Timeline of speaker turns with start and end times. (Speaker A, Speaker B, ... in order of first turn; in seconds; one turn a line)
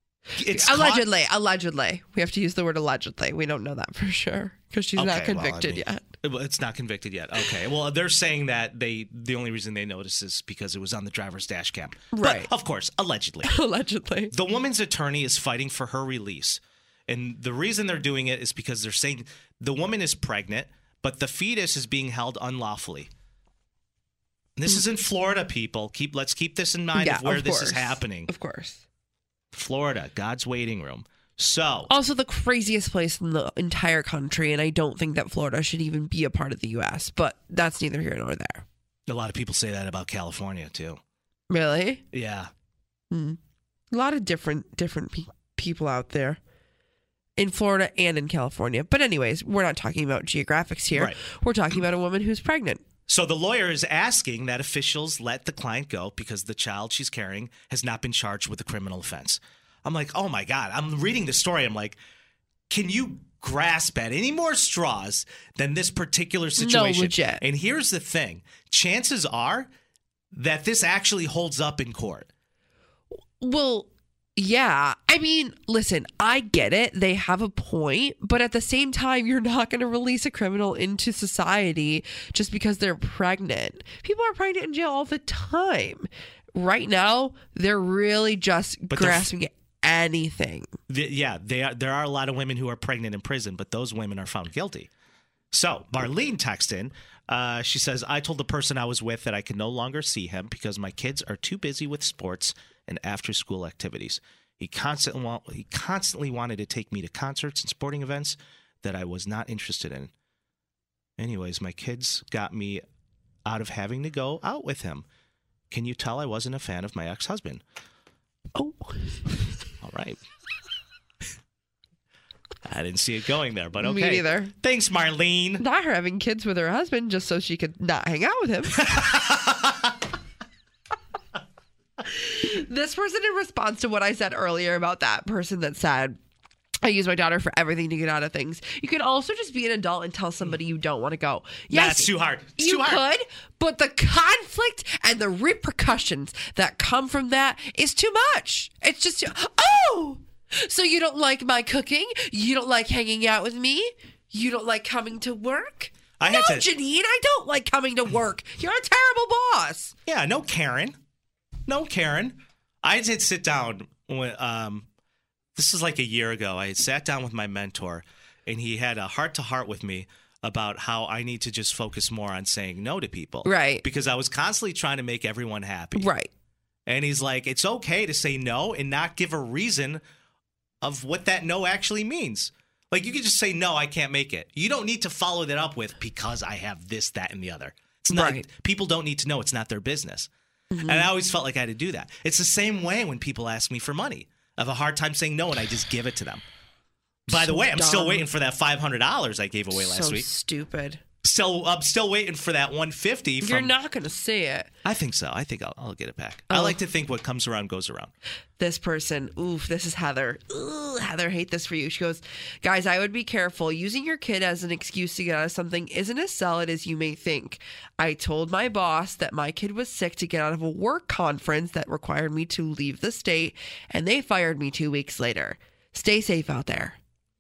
Speaker A: 0.4-1.1
Speaker B: 0.5-6.0
Speaker A: 5.0-13.6
Speaker B: 12.1-12.5
Speaker B: 13.4-14.3
Speaker A: 14.3-23.1
Speaker A: 24.6-28.3
Speaker B: 26.9-28.8
Speaker A: 29.5-31.9
Speaker B: 31.9-38.6
Speaker A: 39.1-41.0
Speaker B: 41.5-42.0
Speaker A: 42.1-42.5
Speaker B: 43.1-43.4
Speaker B: 43.9-46.4
Speaker B: 47.4-52.8
Speaker A: 50.9-51.2
Speaker A: 53.1-62.0
Speaker A: 62.7-69.7
Speaker B: 66.6-67.4
Speaker A: 70.3-72.3
Speaker B: 73.4-90.7
Speaker A: 88.9-89.3
Speaker A: 90.9-94.9
Speaker A: 95.5-110.1
Speaker A: 111.2-112.8
Speaker A: 113.5-115.1
Speaker A: 115.7-117.6
Speaker B: 118.5-119.5
Speaker A: 119.8-120.2
Speaker A: 122.7-125.6
Speaker B: 123.8-124.5
Speaker B: 125.6-129.0
Speaker A: 128.8-129.9
Speaker B: 132.1-136.2
Speaker B: 136.8-159.9
Speaker A: 141.7-143.0
Speaker A: 156.2-156.7
Speaker A: 160.1-161.0
Speaker A: 161.7-164.9
Speaker A: 165.6-176.1
Speaker B: 173.4-173.8
Speaker B: 176.0-176.3
Speaker A: 176.9-180.0
Speaker A: 180.8-190.3
Speaker B: 188.1-188.4
Speaker B: 190.7-191.1
Speaker A: 190.9-196.4
Speaker A: 197.3-200.3
Speaker B: 197.3-198.3
Speaker B: 199.7-201.0
Speaker A: 201.2-203.7
Speaker B: 203.4-204.7
Speaker A: 204.8-208.1
Speaker B: 206.5-206.8
Speaker B: 208.6-227.0